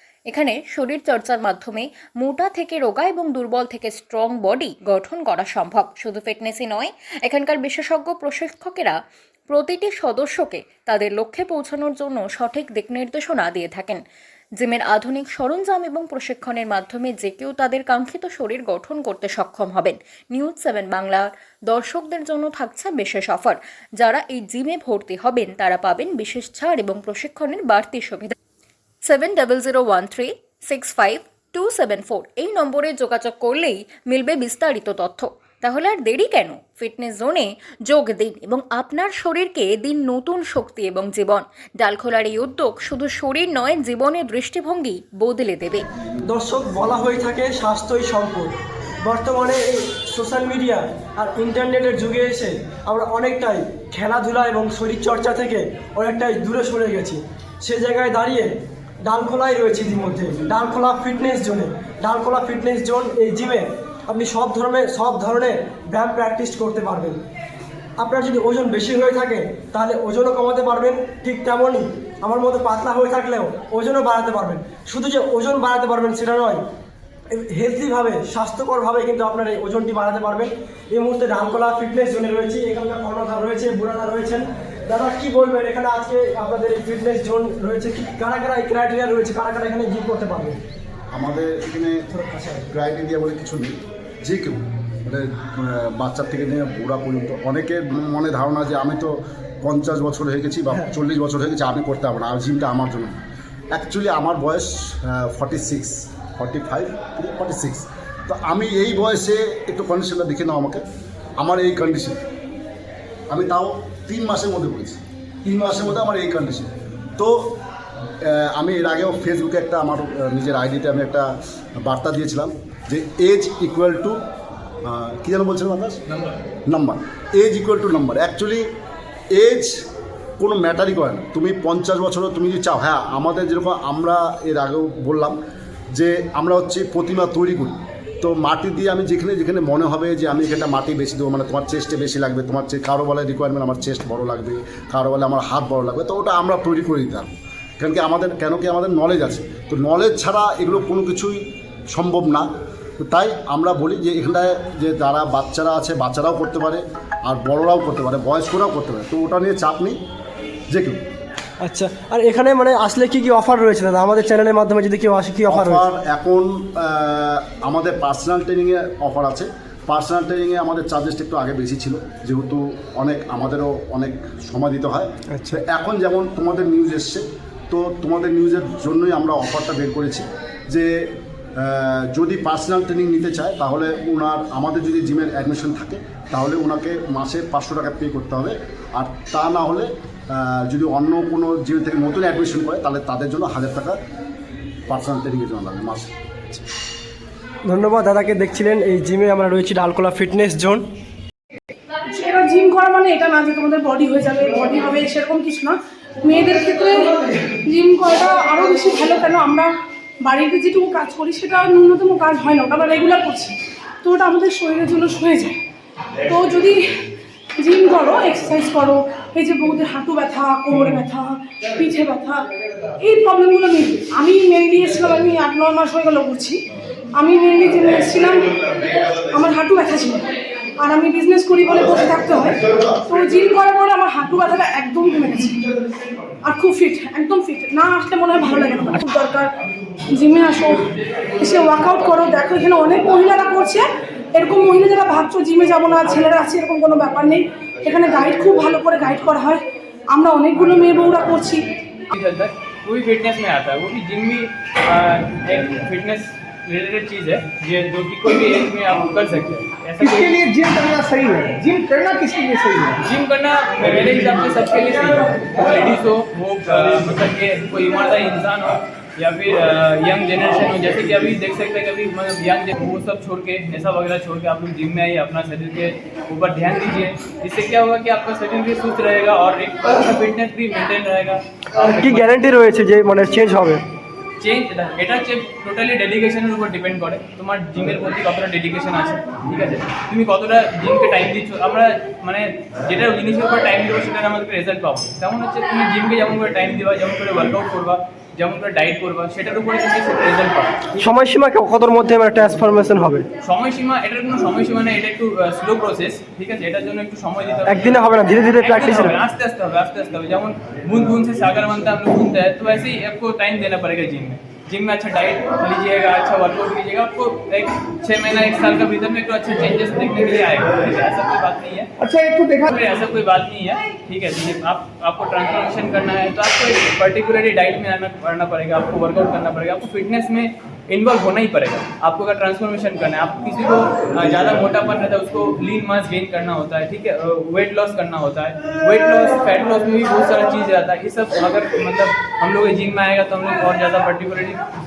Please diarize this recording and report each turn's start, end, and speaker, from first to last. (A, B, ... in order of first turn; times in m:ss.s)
0:00.3-0:14.0 A
0:14.6-0:28.3 A
0:29.0-0:45.8 A
0:46.2-1:07.2 B
1:08.0-1:16.6 B
1:17.3-1:30.6 B
1:31.1-1:43.2 C
1:43.7-1:50.8 C
1:51.4-1:52.2 C
1:53.3-1:57.6 C
1:58.2-2:01.3 C
2:01.8-2:04.2 C
2:04.8-2:06.0 C
2:06.7-2:08.7 C
2:09.3-2:09.8 C
2:10.4-2:15.4 C
2:15.9-2:31.4 C
2:31.9-2:32.5 C
2:33.0-2:40.0 C
2:40.7-2:41.0 C
2:41.6-2:45.8 B
2:45.5-3:00.9 C
2:55.3-2:55.6 B
3:01.6-3:14.0 C
3:14.9-3:16.1 C
3:17.6-3:20.8 B
3:22.1-3:29.7 D
3:30.2-3:35.6 D
3:36.3-3:37.0 D
3:37.6-3:42.5 D
3:43.0-3:46.6 D
3:47.2-3:50.2 D
3:50.8-3:55.6 D
3:56.4-3:59.5 D
4:00.1-4:11.7 D
4:12.1-4:20.5 E
4:20.0-4:23.0 F
4:23.0-4:42.3 E
4:42.0-4:43.8 B
4:44.4-5:01.1 E
5:01.0-5:03.2 B
5:03.4-5:08.0 E
5:07.7-5:09.2 B
5:08.6-5:21.9 E
5:22.0-5:22.7 F
5:22.6-5:44.6 E